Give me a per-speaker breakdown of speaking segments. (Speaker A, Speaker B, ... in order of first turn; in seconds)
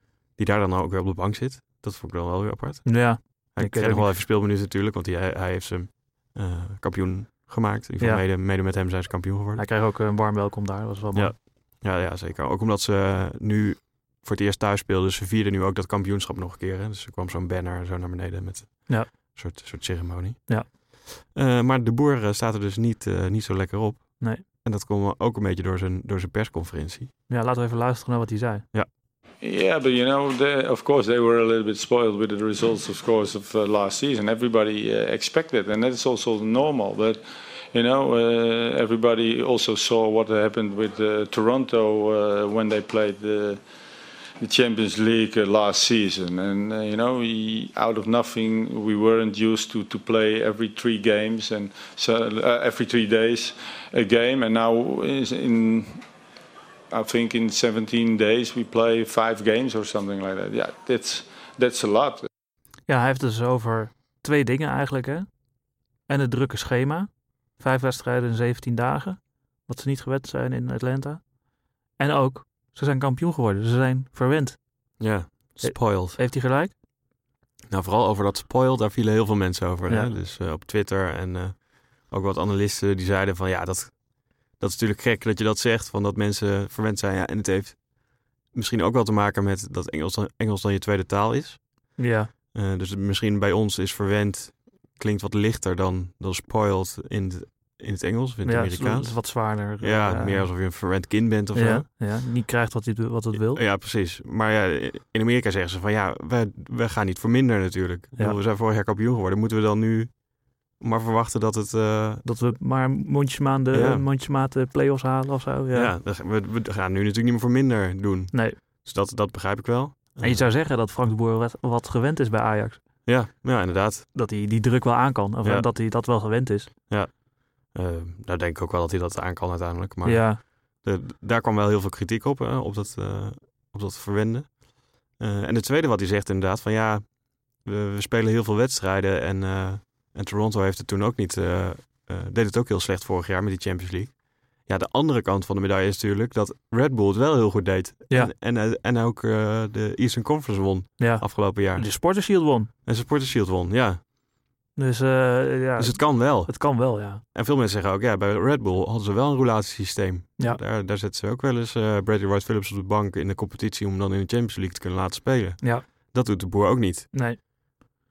Speaker A: 0.3-9.7, 11.1-27.1, 75.0-76.2, 77.7-84.0, 84.5-87.8, 88.5-91.6, 92.5-101.9, 103.3-112.2, 113.7-114.0, 115.7-120.5, 123.0-124.1, 127.6-134.6, 135.1-151.9, 152.8-154.0, 155.8-167.1
Speaker B: 2.8-4.2, 9.6-11.3, 27.3-28.6, 62.9-65.3, 66.1-71.2, 72.0-74.6, 75.6-76.7, 79.9-80.1, 92.0-92.3, 98.4-100.5, 101.5-103.6, 112.2-115.9, 118.3-118.6, 120.2-122.8, 124.1-126.7, 130.0-130.4, 151.0-152.7, 154.8-157.2, 167.1-167.4
Speaker C: 29.4-37.2, 37.7-43.6, 44.4-56.0, 56.9-62.3